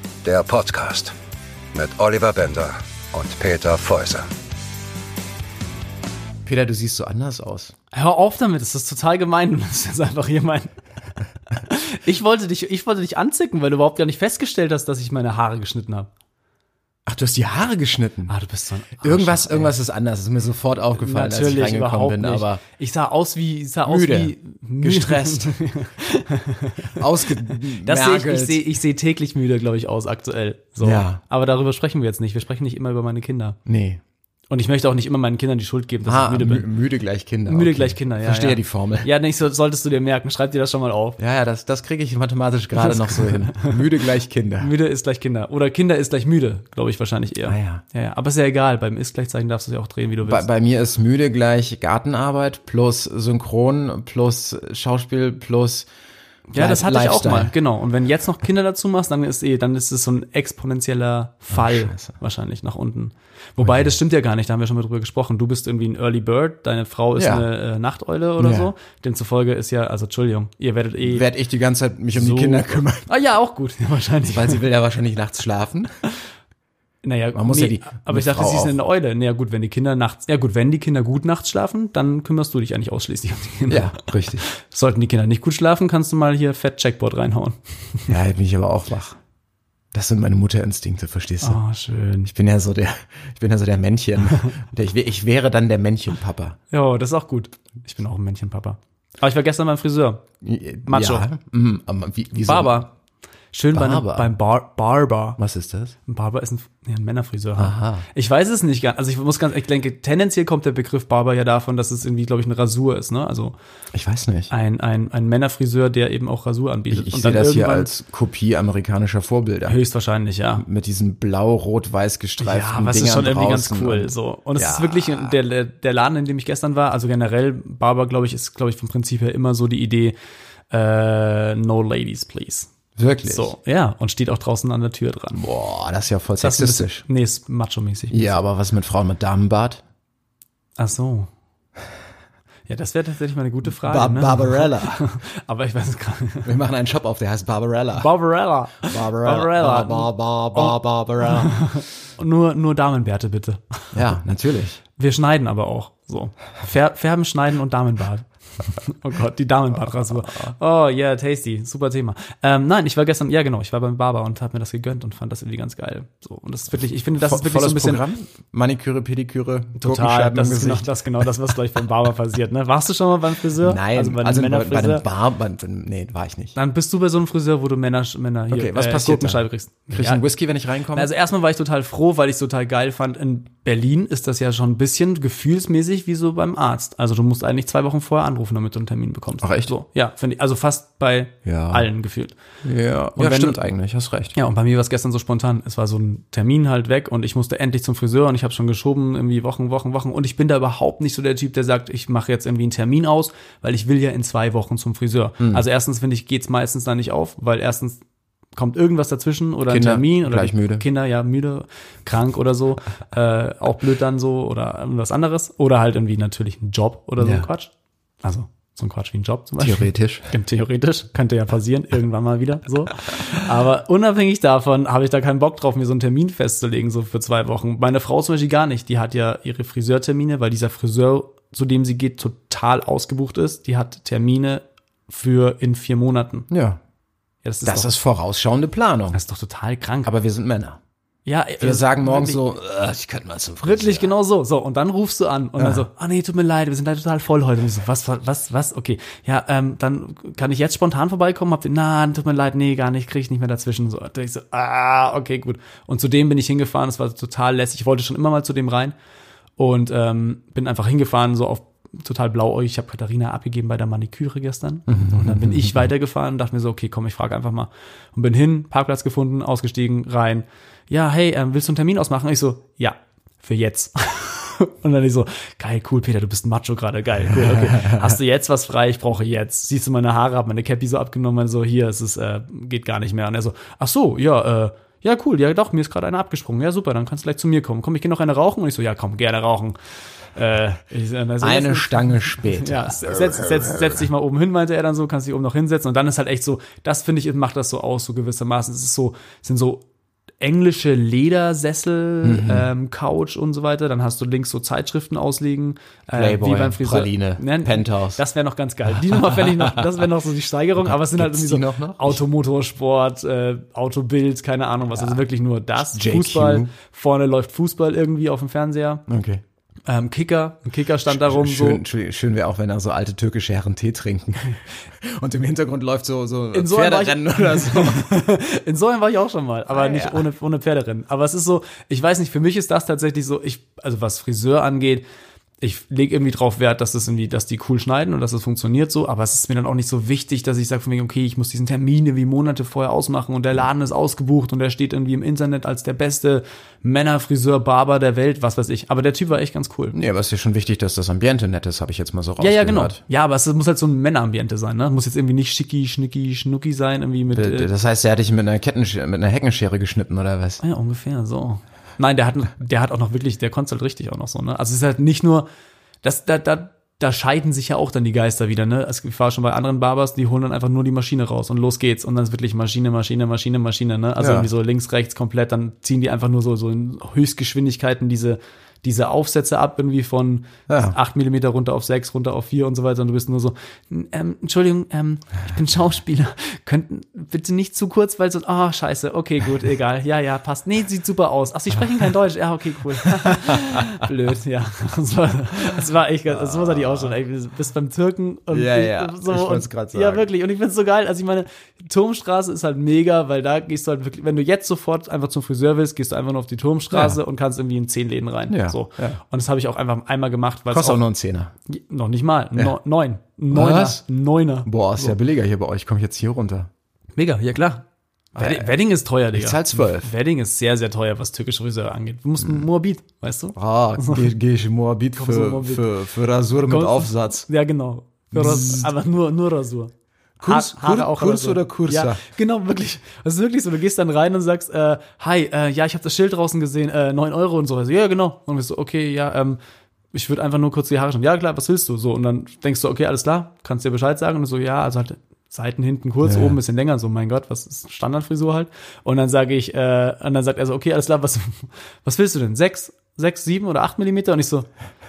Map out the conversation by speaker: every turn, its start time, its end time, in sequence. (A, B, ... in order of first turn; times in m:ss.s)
0:00.2-0:01.1 A
0:01.7-0:04.3 A
0:06.4-0:07.7 B
0:07.9-0:10.7 C
0:11.6-0:16.1 C
0:17.0-0:18.3 B
0:18.3-0:19.7 C
0:19.0-0:22.6 B
0:21.0-0:33.6 C
0:23.9-0:25.6 B
0:26.9-0:28.6 B
0:30.8-0:31.2 B
0:33.7-0:34.0 B
0:34.5-0:36.7 C
0:36.0-0:39.1 B
0:37.5-0:41.2 C
0:41.2-0:44.7 B
0:42.8-0:43.7 C
0:44.6-0:50.5 C
0:47.4-0:47.8 B
0:50.2-0:55.9 B
0:56.5-1:11.2 C
0:56.6-0:57.5 B
1:01.5-1:02.1 B
1:03.6-1:03.9 B
1:07.1-1:07.4 B
1:08.4-1:08.7 B
1:11.0-1:13.0 B
1:12.1-1:14.6 C
1:14.3-1:15.9 B
1:17.0-1:28.1 C
1:17.3-1:18.7 B
1:23.7-1:24.4 B
1:28.1-1:29.2 B
1:29.9-1:31.6 B
1:31.4-1:32.3 C
1:32.2-1:36.6 B
1:36.7-1:40.2 C
1:40.4-1:42.8 B
1:40.8-1:41.3 C
1:42.4-1:42.9 C
1:43.5-1:45.4 C
1:43.7-1:44.3 B
1:45.4-1:45.9 B
1:46.0-1:53.5 C
1:47.6-1:48.0 B
1:53.9-1:54.5 B
1:54.5-1:57.9 C
1:56.9-1:59.8 B
1:59.6-2:00.6 C
2:00.6-2:05.3 B
2:02.4-2:10.1 C
2:10.7-2:12.7 C
2:13.0-2:13.5 B
2:13.2-2:15.4 C
2:15.3-2:17.0 B
2:16.4-2:18.2 C
2:18.1-2:19.8 B
2:20.8-2:21.3 C
2:22.7-2:26.5 C
2:23.7-2:25.0 B
2:26.4-2:28.1 B
2:28.0-2:34.0 C
2:28.8-2:31.6 B
2:33.9-2:34.8 B
2:35.0-2:48.0 C
2:40.2-2:40.5 B
2:47.2-2:50.9 B
2:49.8-2:55.0 C
2:53.6-2:56.5 B
2:56.5-3:00.2 C
2:58.5-3:01.1 B
3:00.9-3:12.3 C
3:09.4-3:09.7 B
3:11.4-3:11.9 B
3:12.6-3:14.3 B
3:13.2-3:13.6 C
3:14.3-3:28.0 C
3:25.4-3:25.6 B
3:28.5-3:37.7 C
3:29.7-3:30.8 B
3:37.2-3:37.5 B
3:38.2-3:56.5 C
3:39.6-3:40.3 B
3:56.5-3:56.8 B
3:57.4-3:57.9 C
3:57.6-3:59.2 B
3:59.1-4:00.1 C
4:00.0-4:00.8 B
4:01.2-4:02.4 C
4:01.6-4:04.1 B
4:03.6-4:18.9 C
4:05.6-4:05.8 B
4:19.6-4:49.8 C
4:24.9-4:25.9 B
4:37.3-4:38.2 B
4:50.3-4:59.8 C
4:51.4-4:53.6 B
5:00.4-5:19.0 C
5:02.2-5:02.7 B
5:06.1-5:08.2 B
5:08.9-5:09.8 B
5:10.8-5:12.2 B
5:14.9-5:15.2 B
5:15.9-5:16.7 B
5:19.1-5:19.4 B
5:19.9-5:21.8 C
5:21.1-5:28.2 B
5:26.5-5:35.0 C
5:29.7-5:30.2 B
5:35.6-5:50.0 C
5:49.9-5:53.0 B
5:52.4-5:57.7 C
5:57.3-6:00.6 B
6:00.6-6:05.4 C
6:06.0-6:51.0 C
6:14.2-6:14.5 B
6:20.7-6:21.0 B
6:33.0-6:33.8 B
6:36.3-6:37.1 B
6:38.5-6:40.3 B
6:46.9-6:47.2 B
6:48.5-6:49.2 B
6:50.7-6:51.5 B
6:51.7-6:55.2 C
6:53.5-6:54.0 B
6:54.6-6:56.7 B
6:57.2-7:04.2 C
6:58.4-6:58.7 B
6:59.3-7:00.1 B
7:03.6-7:07.4 B
7:05.1-7:05.8 C
7:06.7-7:09.9 C
7:08.3-7:08.9 B
7:10.4-7:12.2 B
7:10.4-7:19.6 C
7:20.1-7:34.7 C
7:26.2-7:26.6 B